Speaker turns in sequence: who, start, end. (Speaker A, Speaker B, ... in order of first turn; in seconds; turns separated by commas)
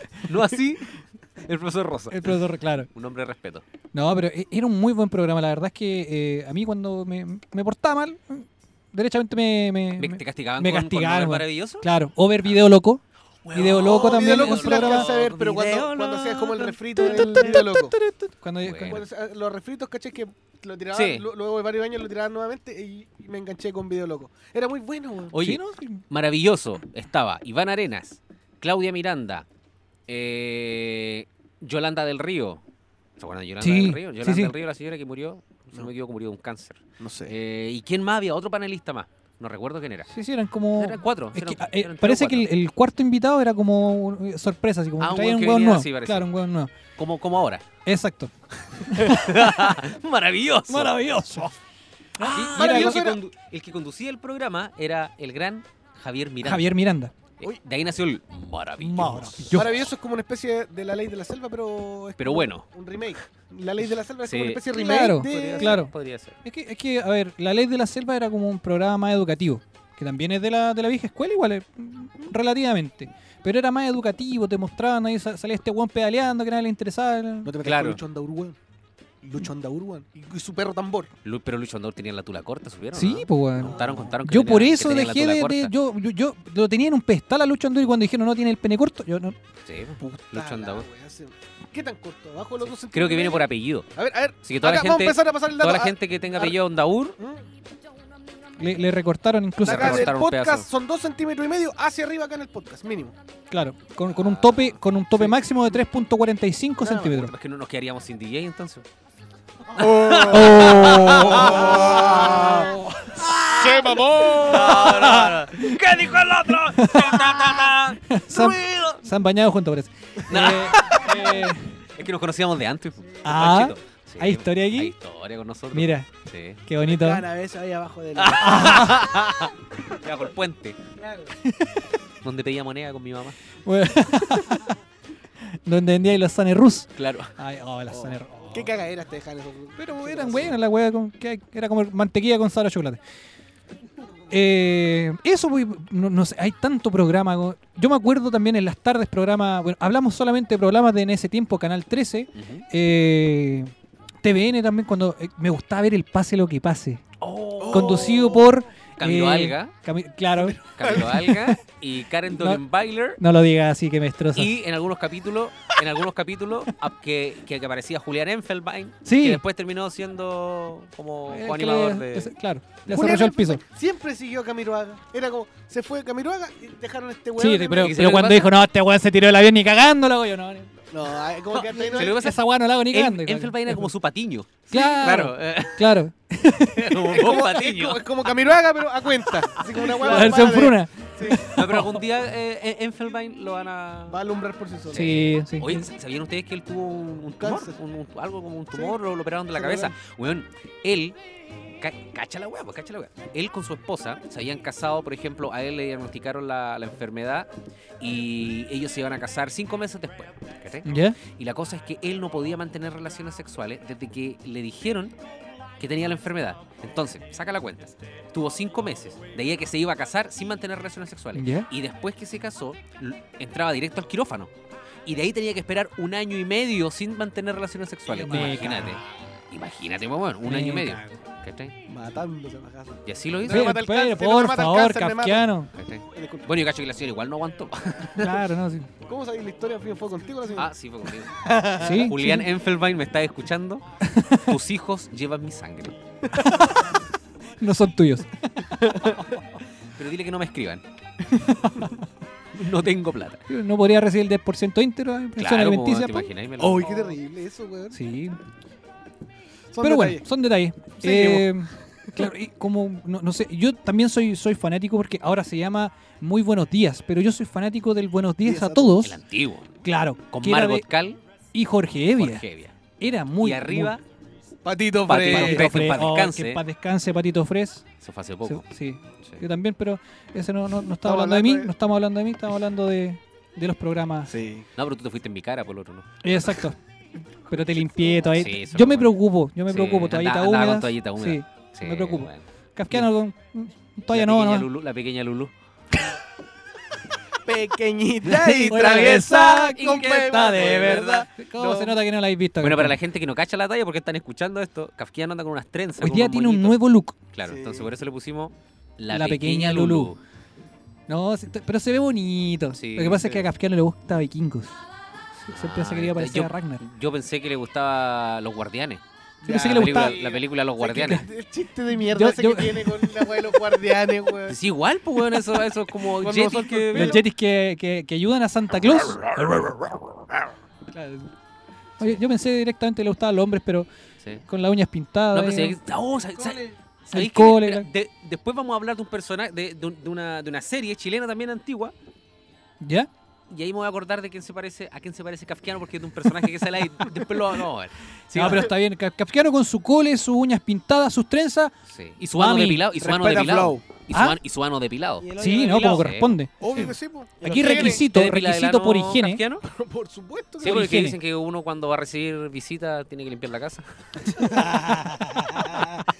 Speaker A: 0.2-2.4, Speaker B: 2.1-2.9, Speaker A: 2.9-3.6, Speaker B: 3.9-13.0, Speaker A: 10.0-11.9, Speaker A: 13.4-17.4, Speaker B: 13.5-15.1, Speaker C: 13.7-17.9, Speaker B: 16.9-19.0, Speaker A: 18.6-19.0, Speaker C: 18.9-25.4, Speaker A: 20.9-21.2, Speaker A: 25.3-29.4, Speaker B: 25.3-26.0, Speaker A: 30.1-32.6, Speaker A: 33.2-40.1, Speaker B: 33.6-34.5, Speaker C: 37.0-37.3, Speaker B: 40.1-46.7, Speaker A: 40.8-42.5, Speaker A: 45.0-46.3, Speaker A: 47.0-47.6, Speaker B: 47.8-49.8, Speaker A: 48.9-51.0, Speaker B: 50.7-51.5, Speaker B: 52.2-53.0, Speaker C: 52.2-53.2, Speaker A: 52.3-56.7, Speaker B: 56.4-57.1, Speaker A: 57.4-59.9, Speaker B: 58.8-59.8, Speaker C: 59.5-65.8, Speaker A: 62.2-62.7, Speaker A: 64.2-66.3, Speaker B: 64.7-65.9, Speaker B: 66.4-77.5, Speaker C: 77.4-78.6, Speaker A: 77.6-78.0, Speaker C: 79.2-81.1, Speaker A: 81.2-85.7, Speaker B: 82.9-89.3, Speaker C: 83.6-84.2, Speaker A: 89.7-90.9, Speaker C: 90.0-96.5, Speaker A: 92.6-93.9, Speaker A: 94.4-97.2, Speaker C: 97.2-97.4, Speaker B: 98.6-100.1, Speaker A: 99.6-100.7, Speaker C: 99.6-103.1, Speaker B: 103.5-107.3, Speaker A: 104.1-104.8, Speaker C: 106.8-107.2, Speaker A: 107.2-108.8, Speaker C: 109.7-112.7, Speaker A: 109.8-119.0, Speaker B: 110.3-113.3, Speaker C: 113.4-115.3, Speaker B: 114.8-115.8, Speaker B: 116.5-117.1, Speaker B: 118.1-121.8, Speaker A: 120.3-121.4, Speaker A: 122.0-126.6, Speaker B: 123.2-124.9, Speaker B: 125.7-126.1, Speaker B: 126.7-127.2, Speaker C: 126.8-128.8, Speaker A: 128.2-130.8, Speaker B: 128.4-129.1, Speaker D: 131.0-131.3, Speaker B: 131.4-131.9, Speaker A: 132.2-133.4, Speaker B: 133.7-134.7, Speaker B: 135.6-138.7, Speaker A: 136.9-137.3, Speaker C: 137.9-140.6, Speaker B: 139.8-143.0, Speaker B: 144.3-153.7, Speaker A: 152.3-152.6, Speaker B: 154.2-157.0, Speaker A: 157.2-158.3, Speaker C: 157.6-158.5, Speaker B: 157.7-161.5, Speaker A: 159.0-159.7, Speaker C: 160.4-161.2, Speaker A: 160.7-163.2, Speaker B: 162.3-162.6, Speaker B: 163.2-164.5, Speaker A: 164.3-172.3, Speaker B: 169.0-169.4, Speaker B: 171.3-173.6, Speaker A: 172.9-173.1, Speaker C: 172.9-177.9, Speaker B: 177.4-180.7, Speaker A: 177.8-178.5, Speaker C: 180.9-182.2, Speaker A: 181.5-185.9, Speaker B: 182.0-183.9, Speaker B: 184.7-187.3, Speaker A: 186.8-188.3, Speaker C: 187.1-191.5, Speaker A: 189.5-190.4, Speaker B: 189.9-192.0, Speaker A: 191.5-194.2, Speaker C: 194.1-195.1, Speaker A: 194.9-201.2, Speaker B: 194.9-195.9, Speaker C: 197.4-197.7, Speaker C: 199.5-199.9, Speaker A: 201.8-207.5, Speaker A: 208.0-215.1, Speaker B: 210.8-211.2, Speaker A: 215.8-224.5, Speaker B: 221.3-221.7, Speaker A: 225.1-231.8, Speaker B: 228.1-229.0, Speaker B: 230.4-231.2, Speaker C: 231.9-235.5, Speaker A: 233.1-233.8, Speaker B: 233.5-235.7, Speaker A: 235.7-238.3, Speaker C: 236.1-236.5, Speaker B: 238.2-238.9, Speaker C: 239.0-240.7, Speaker A: 240.6-243.8, Speaker C: 241.4-242.1, Speaker B: 241.8-242.5, Speaker B: 244.0-244.5, Speaker A: 244.4-246.0, Speaker B: 246.3-246.8, Speaker B: 247.6-249.2, Speaker C: 248.9-249.2, Speaker A: 250.0-250.8, Speaker B: 251.5-251.9, Speaker A: 252.5-253.4, Speaker B: 253.5-256.3, Speaker A: 255.4-257.1, Speaker C: 256.6-258.0, Speaker B: 257.9-258.4, Speaker C: 259.7-260.2, Speaker B: 259.8-269.2, Speaker C: 261.0-261.5, Speaker C: 268.4-269.0, Speaker A: 269.0-269.7, Speaker B: 269.8-270.9, Speaker A: 270.3-271.2, Speaker B: 271.5-272.4, Speaker A: 272.2-272.7, Speaker B: 273.0-274.0, Speaker A: 273.4-274.0, Speaker C: 274.6-275.7, Speaker A: 275.1-276.6, Speaker B: 275.2-277.8, Speaker A: 278.0-278.6, Speaker B: 278.4-284.3, Speaker C: 281.0-281.7, Speaker C: 284.3-284.7, Speaker A: 284.8-286.6, Speaker B: 286.2-286.8, Speaker B: 287.5-294.7, Speaker A: 288.3-289.1, Speaker A: 289.7-293.1, Speaker A: 294.1-295.5, Speaker C: 297.4-302.0, Speaker A: 298.4-298.8, Speaker B: 298.6-302.9, Speaker A: 299.8-301.2, Speaker A: 302.6-306.8, Speaker B: 306.0-307.1, Speaker A: 307.3-310.2, Speaker C: 307.5-307.9, Speaker B: 309.1-310.1, Speaker B: 311.1-314.8, Speaker A: 312.7-313.4, Speaker B: 315.4-316.8, Speaker A: 315.5-319.0, Speaker C: 319.4-324.6, Speaker B: 319.4-320.2, Speaker A: 319.6-321.2, Speaker B: 320.9-321.2, Speaker B: 321.9-323.1, Speaker A: 324.5-327.2, Speaker C: 326.1-327.2, Speaker B: 326.9-329.9, Speaker B: 330.9-331.3, Speaker B: 332.0-333.9, Speaker B: 334.5-335.8, Speaker A: 335.3-341.9, Speaker D: 336.4-336.8, Speaker B: 337.1-337.9, Speaker B: 342.8-343.1, Speaker A: 343.5-348.7, Speaker B: 348.3-351.7, Speaker A: 351.9-355.3, Speaker B: 352.4-352.8, Speaker C: 353.0-353.8, Speaker B: 354.1-354.4, Speaker D: 355.2-356.1, Speaker B: 355.4-356.9, Speaker A: 355.9-356.9, Speaker C: 356.6-358.0, Speaker B: 357.4-359.4, Speaker A: 357.6-359.6, Speaker C: 359.7-360.9, Speaker A: 360.6-364.3, Speaker B: 360.6-361.2, Speaker D: 364.6-365.4, Speaker B: 364.8-365.8